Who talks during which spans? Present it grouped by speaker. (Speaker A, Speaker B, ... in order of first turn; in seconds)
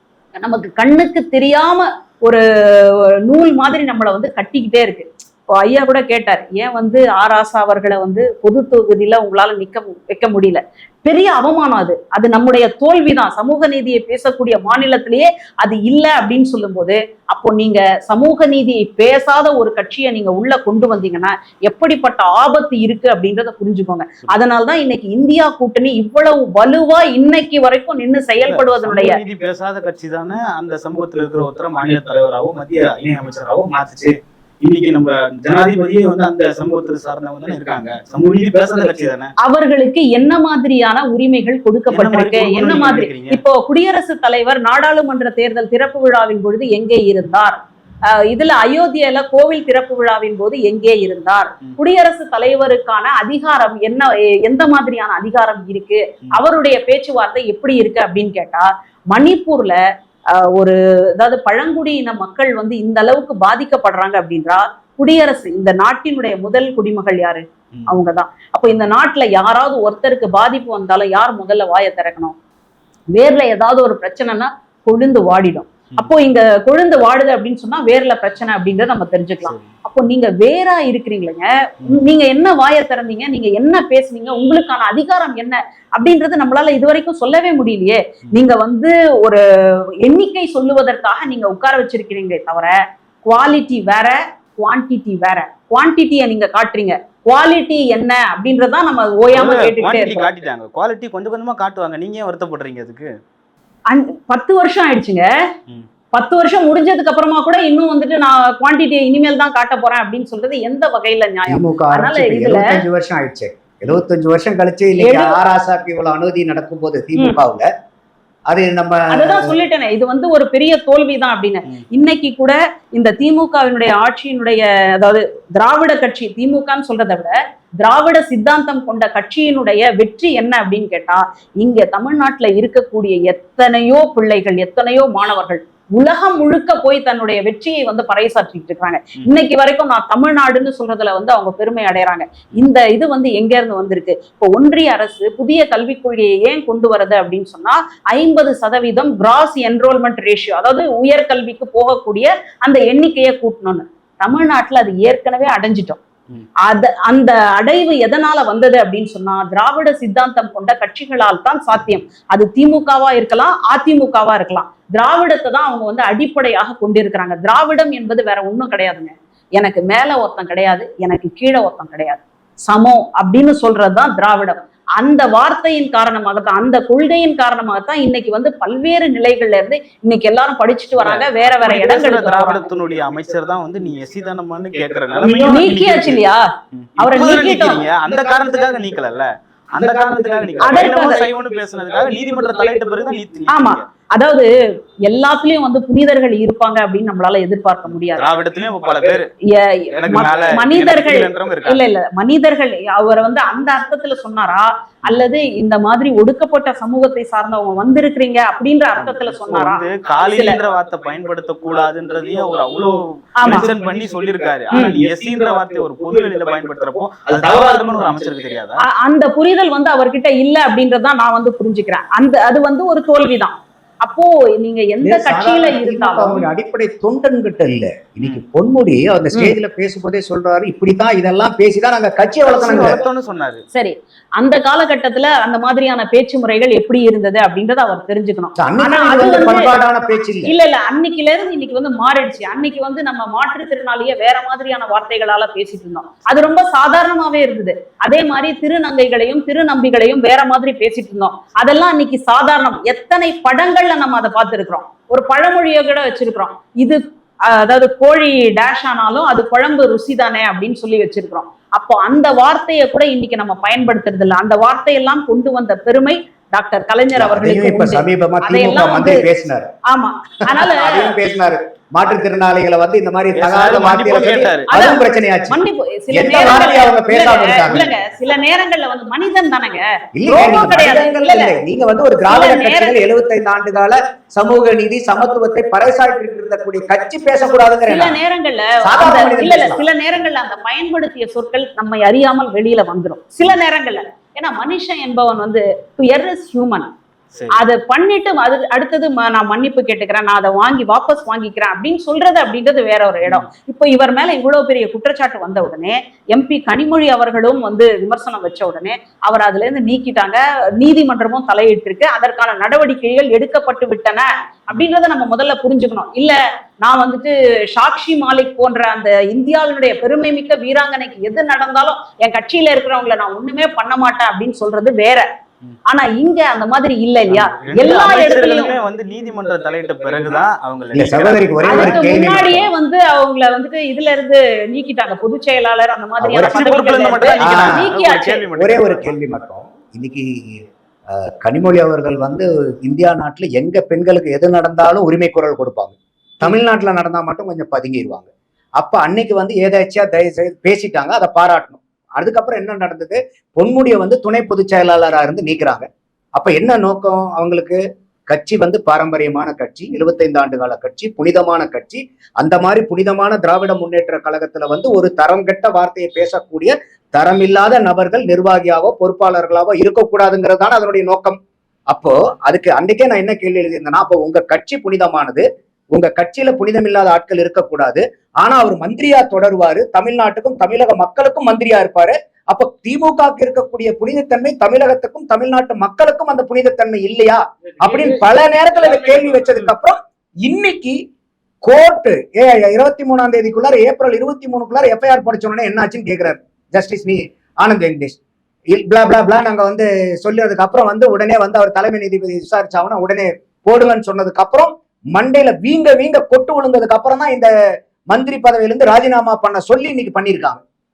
Speaker A: 0.4-29.2, 39.4-47.5, 48.1-59.8, 60.3-72.3, 73.1-89.4, 90.0-92.8, 93.3-100.3, 103.9-105.3, 106.1-112.7, 115.0-115.4, 119.1-156.0, 156.6-182.7, 185.5-186.5, 187.0-187.8, 190.6-191.2, 193.5-194.5, 195.0-198.3, 199.5-210.6, 213.4-213.7, 218.8-226.4, 233.7-239.7, 240.4-269.2, 269.9-271.1, 274.7-281.6, 282.3-283.0, 287.9-296.9, 297.5-325.2, 325.9-328.7, 331.6-338.4
Speaker B: 28.4-39.3, 41.9-43.4, 99.3-103.1, 181.0-186.2, 186.7-193.8, 198.2-199.3, 199.9-201.8, 209.0-218.8, 232.4-233.6, 273.3-274.7, 327.3-332.4, 336.3-339.1, 389.1-389.7
Speaker C: 111.5-117.7, 118.5-119.5, 225.0-233.0, 238.6-240.5, 267.1-269.7, 270.5-275.6, 276.1-277.9, 280.1-288.2, 288.8-289.8, 330.9-332.7, 337.4-338.0, 338.5-371.4, 371.9-391.0, 391.6-398.2, 398.7-407.5, 408.1-410.6